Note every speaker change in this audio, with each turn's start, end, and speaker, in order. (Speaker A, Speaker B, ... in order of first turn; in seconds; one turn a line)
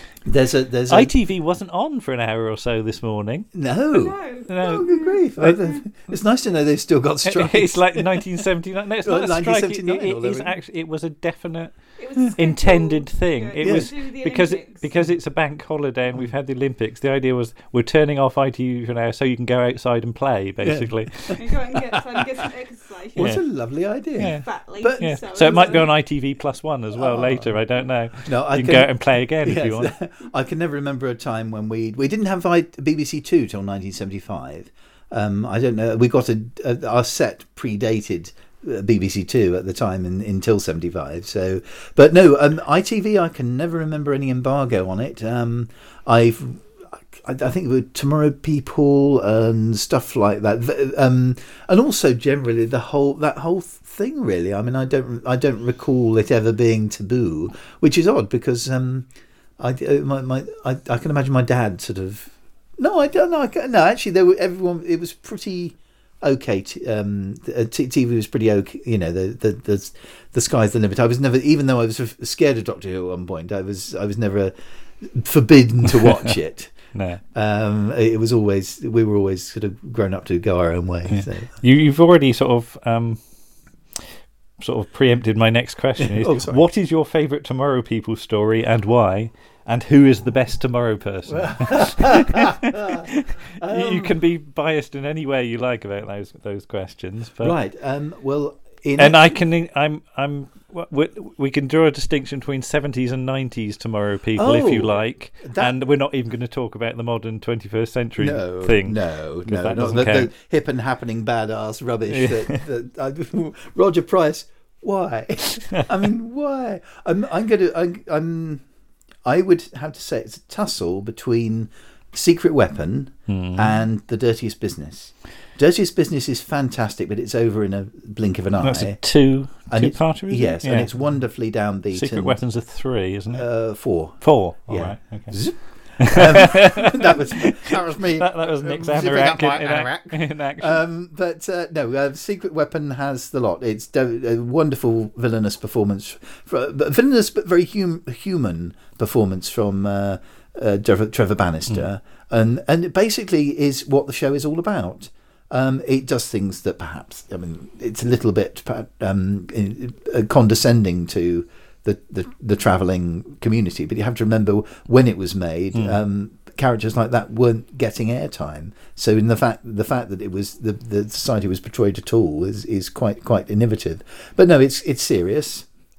Speaker A: 0.2-1.1
Speaker B: 0.9-3.5
Speaker A: 3.5-8.3
Speaker C: 3.9-5.8
Speaker B: 4.5-5.6
Speaker B: 7.2-21.5
Speaker A: 9.0-10.6
Speaker C: 12.0-14.9
Speaker A: 13.6-13.9
Speaker A: 20.6-22.5
Speaker C: 21.4-23.4
Speaker A: 23.1-25.9
Speaker B: 23.2-23.4
Speaker B: 24.2-29.9
Speaker C: 24.3-25.9
Speaker A: 27.0-27.6
Speaker A: 28.2-59.1
Speaker A: 59.6-76.7
Speaker B: 76.0-76.3
Speaker B: 76.9-77.2
Speaker A: 77.3-81.5
Speaker B: 81.1-83.2
Speaker B: 84.6-97.5
Speaker A: 86.0-86.6
Speaker A: 91.3-94.2
Speaker A: 97.4-99.4
Speaker B: 99.0-110.3
Speaker A: 104.4-105.8
Speaker A: 108.2-118.6
Speaker B: 112.1-112.6
Speaker A: 119.2-129.0
Speaker B: 123.3-123.8
Speaker B: 128.6-130.9
Speaker A: 129.7-132.4
Speaker B: 131.9-133.5
Speaker A: 133.3-175.7
Speaker B: 134.2-135.4
Speaker B: 136.0-140.8